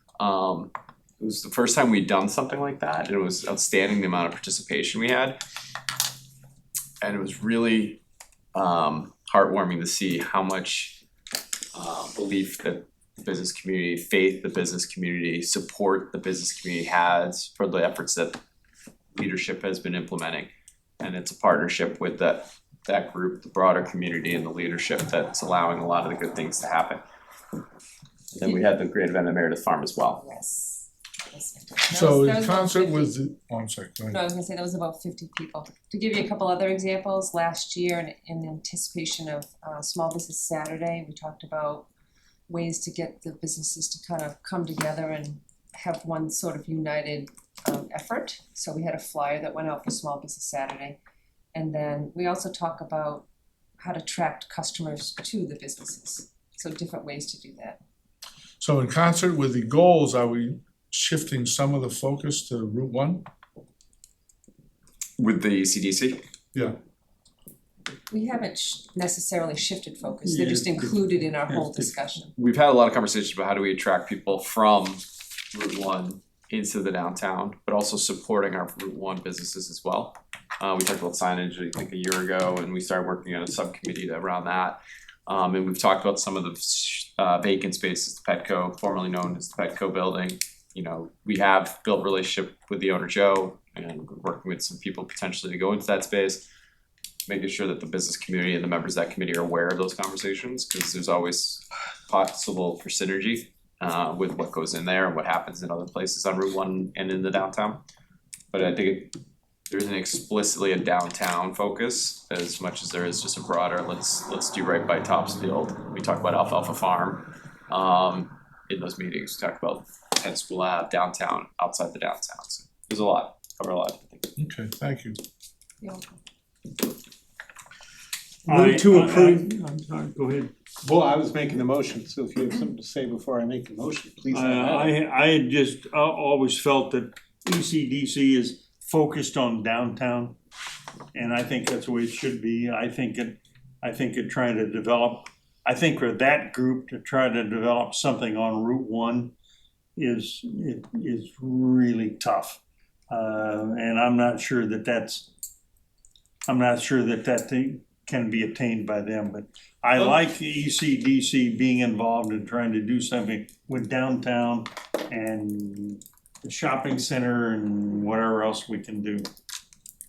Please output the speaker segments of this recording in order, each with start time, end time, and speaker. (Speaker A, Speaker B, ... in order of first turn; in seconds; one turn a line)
Speaker A: 0.2-5.4
Speaker A: 7.0-8.0
Speaker A: 8.5-11.0
Speaker A: 11.7-18.4
Speaker A: 19.1-27.0
Speaker A: 28.3-30.2
Speaker B: 28.4-28.7
Speaker B: 30.1-33.1
Speaker C: 31.9-34.2
Speaker B: 34.1-41.9
Speaker B: 42.5-51.0
Speaker B: 51.5-53.2
Speaker B: 53.8-57.8
Speaker C: 58.6-63.2
Speaker A: 65.2-66.2
Speaker B: 68.1-72.3
Speaker D: 70.2-72.0
Speaker A: 72.3-75.0
Speaker A: 75.5-96.4
Speaker A: 97.3-107.8
Speaker A: 108.5-109.1
Speaker A: 109.7-124.3
Speaker C: 124.4-125.2
Speaker B: 125.8-126.1
Speaker D: 128.4-130.5
Speaker E: 128.5-129.4
Speaker E: 130.8-134.9
Speaker D: 134.3-140.3
Speaker D: 141.1-149.3
Speaker D: 150.0-155.3
Speaker D: 156.5-169.2